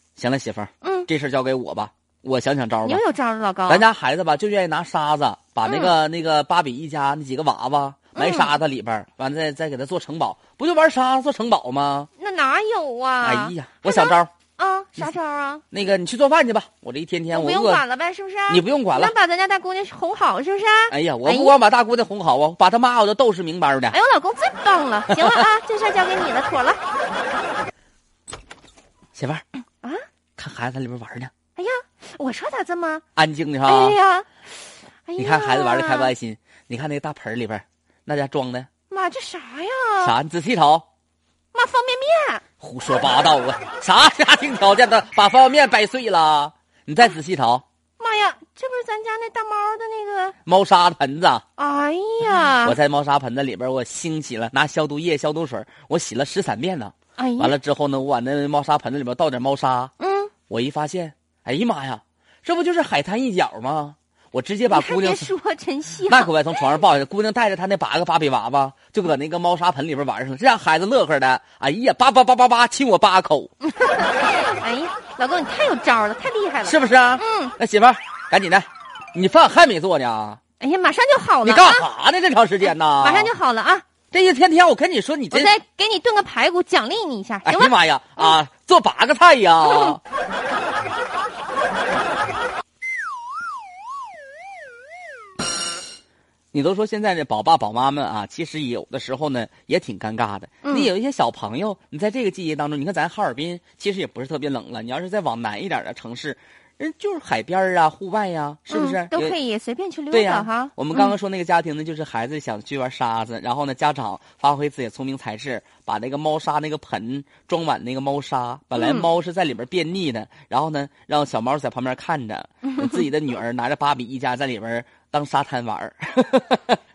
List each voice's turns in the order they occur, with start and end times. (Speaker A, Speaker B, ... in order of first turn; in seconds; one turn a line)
Speaker A: 0.2-3.0
Speaker B: 0.8-1.1
Speaker B: 2.8-3.9
Speaker A: 3.7-12.1
Speaker B: 5.6-5.9
Speaker B: 8.1-8.5
Speaker B: 12.2-15.6
Speaker A: 13.2-14.3
Speaker A: 15.7-17.8
Speaker B: 17.3-21.6
Speaker A: 18.5-19.1
Speaker A: 20.9-24.0
Speaker B: 23.9-26.8
Speaker A: 25.1-25.4
Speaker A: 29.1-29.4
Speaker A: 30.4-31.3
Speaker B: 31.6-33.0
Speaker A: 33.1-34.0
Speaker B: 33.6-36.1
Speaker A: 35.2-38.7
Speaker B: 38.9-40.2
Speaker A: 40.0-40.9
Speaker B: 41.5-42.4
Speaker A: 42.6-47.6
Speaker B: 48.0-50.4
Speaker A: 50.4-51.4
Speaker B: 51.6-52.8
Speaker A: 52.6-59.9
Speaker B: 57.2-57.5
Speaker B: 60.0-60.3
Speaker A: 60.5-65.3
Speaker B: 64.7-66.6
Speaker A: 66.0-73.5
Speaker B: 73.6-77.5
Speaker A: 76.6-80.4
Speaker B: 80.6-81.8
Speaker A: 81.4-83.3
Speaker B: 82.6-83.8
Speaker A: 84.1-85.5
Speaker B: 85.3-88.3
Speaker A: 87.4-90.0
Speaker B: 89.6-90.0
Speaker A: 96.5-109.3
Speaker B: 100.6-100.9
Speaker B: 108.7-111.1
Speaker A: 110.1-126.8
Speaker B: 118.7-119.1
Speaker B: 122.7-123.0